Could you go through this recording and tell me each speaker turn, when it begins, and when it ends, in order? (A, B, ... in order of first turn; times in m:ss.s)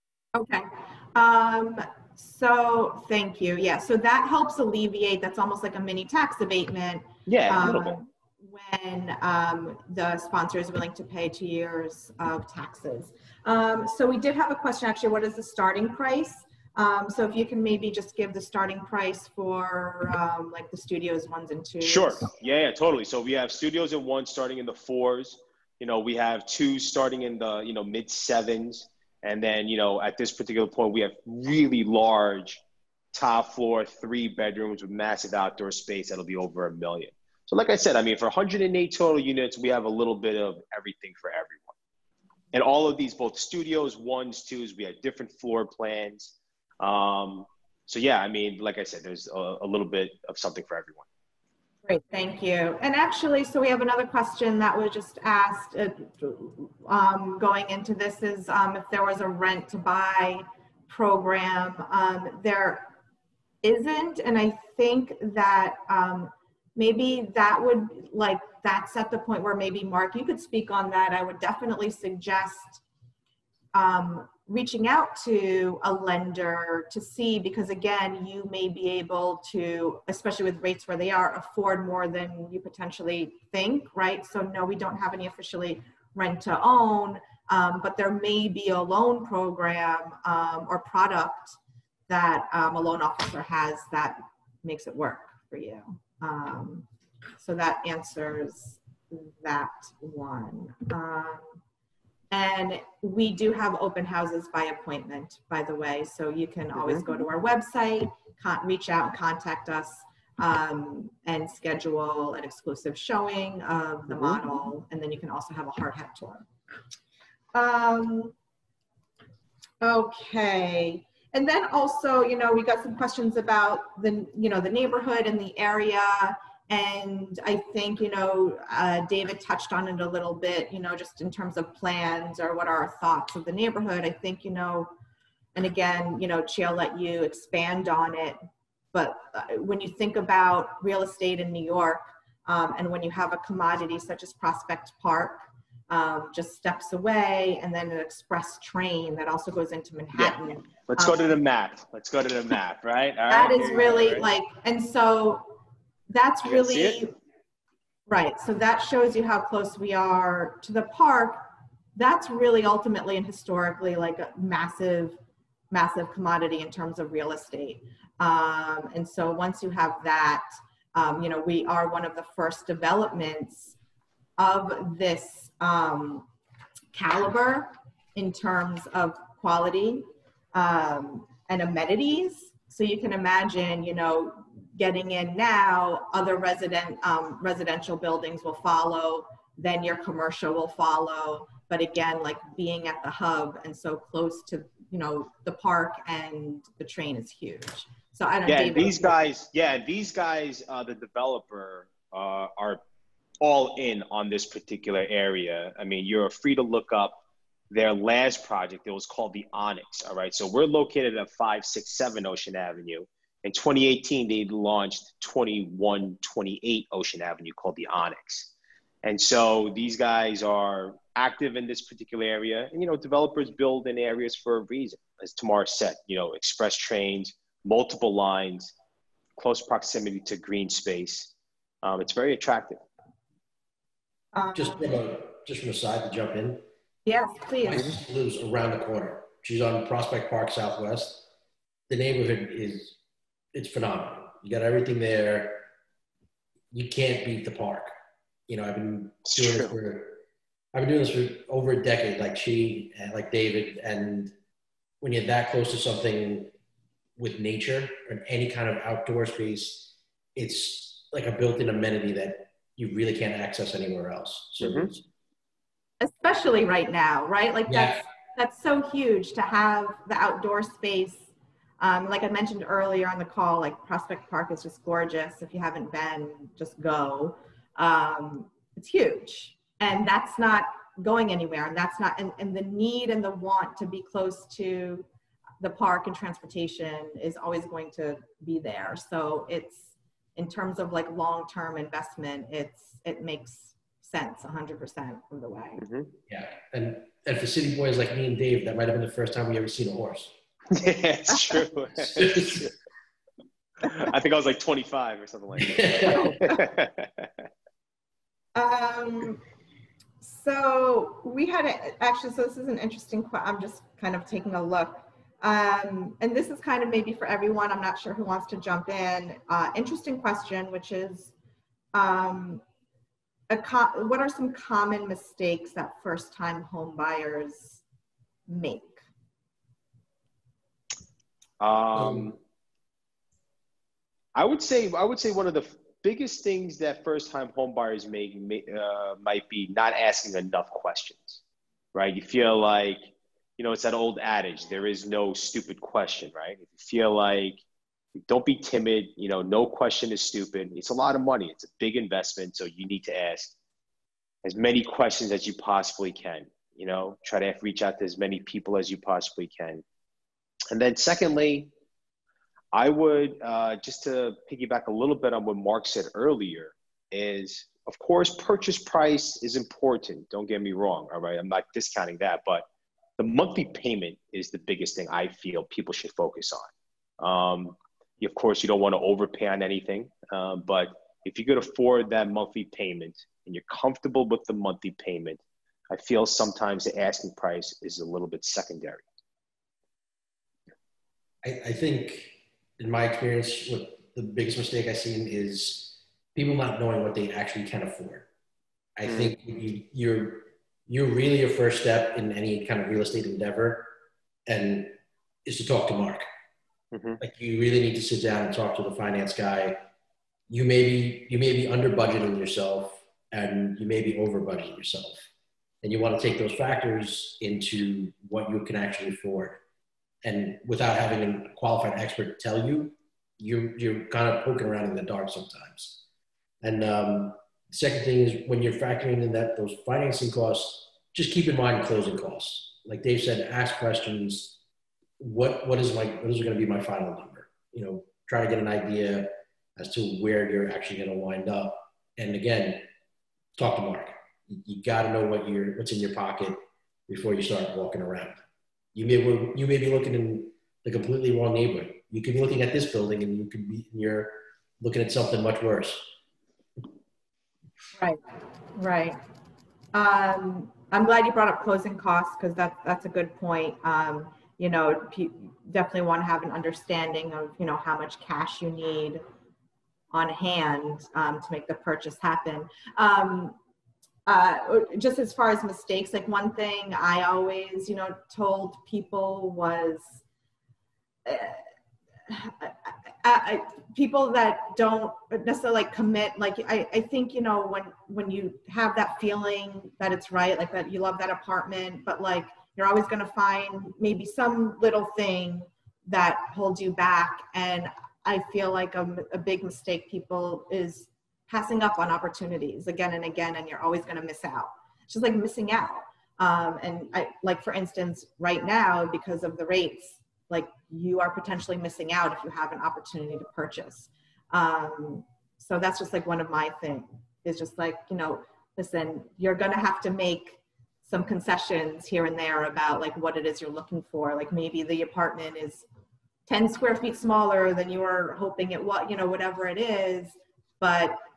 0:00.4-0:22.3 A
0:07.3-0:08.0 B
0:21.8-0:32.6 B
0:33.1-0:41.8 B
0:42.5-0:51.1 B
0:51.8-1:02.9 A
1:03.6-1:12.8 A
1:13.7-1:31.6 A
1:32.1-1:36.9 A
1:37.4-1:41.6 A
1:42.3-1:56.5 A
1:57.5-1:58.4 A
1:59.8-2:14.9 A
2:15.6-2:18.4 A
2:18.9-2:31.3 A
2:30.2-2:34.3 B
2:33.3-2:35.5 A
2:36.1-2:37.2 A
2:36.4-2:37.0 B
2:38.1-2:45.2 A
2:45.7-2:53.8 A
2:54.4-2:56.3 A
2:56.9-3:19.2 A
3:18.5-3:22.8 B
3:23.4-3:38.5 B
3:39.0-3:48.7 B
3:49.4-3:51.3 B
3:51.8-3:52.8 B
3:54.3-3:55.0 A
3:54.6-3:56.6 C
3:57.0-3:57.9 A
3:57.6-4:01.3 C
4:01.9-4:03.0 C
4:03.5-4:05.7 C
4:06.7-4:07.9 C
4:08.5-4:10.2 C
4:09.3-4:09.7 B
4:10.7-4:14.3 C
4:15.0-4:16.5 C
4:17.2-4:25.0 C
4:24.6-4:24.9 B
4:26.0-4:45.1 A
4:27.7-4:28.0 C
4:45.6-4:55.8 A
4:55.8-4:56.1 B
4:56.3-5:00.3 C
5:00.7-5:02.7 B
5:02.0-5:02.7 C
5:03.9-5:07.3 B
5:05.5-5:06.4 C
5:06.1-5:06.6 A
5:08.6-5:09.4 A
5:10.2-5:21.3 A
5:21.9-5:22.6 A
5:23.5-5:27.8 A
5:28.5-5:29.0 A
5:31.6-5:32.4 B
5:32.0-5:32.3 C
5:34.4-5:41.4 B
5:41.9-5:47.6 B
5:48.2-5:53.6 B
5:54.4-5:59.8 B
6:00.7-6:01.7 B
6:02.7-6:12.7 B
6:13.2-6:16.7 B
6:17.2-6:29.0 B
6:31.4-6:38.2 C
6:39.0-6:43.9 C
6:39.1-6:39.3 B
6:44.5-6:46.3 C
6:46.9-6:47.2 B
6:47.2-6:49.8 C
6:50.5-6:55.3 C
6:55.8-6:59.6 C
7:00.2-7:06.0 C
7:06.6-7:14.6 C
7:15.2-7:22.9 C
7:23.6-7:28.4 C
7:29.0-7:36.1 C
7:38.7-7:39.2 A
7:39.9-7:49.2 A
7:50.1-7:53.6 A
7:54.3-8:00.2 A
8:01.2-8:01.6 A
8:02.3-8:45.9 A
8:46.5-8:51.2 A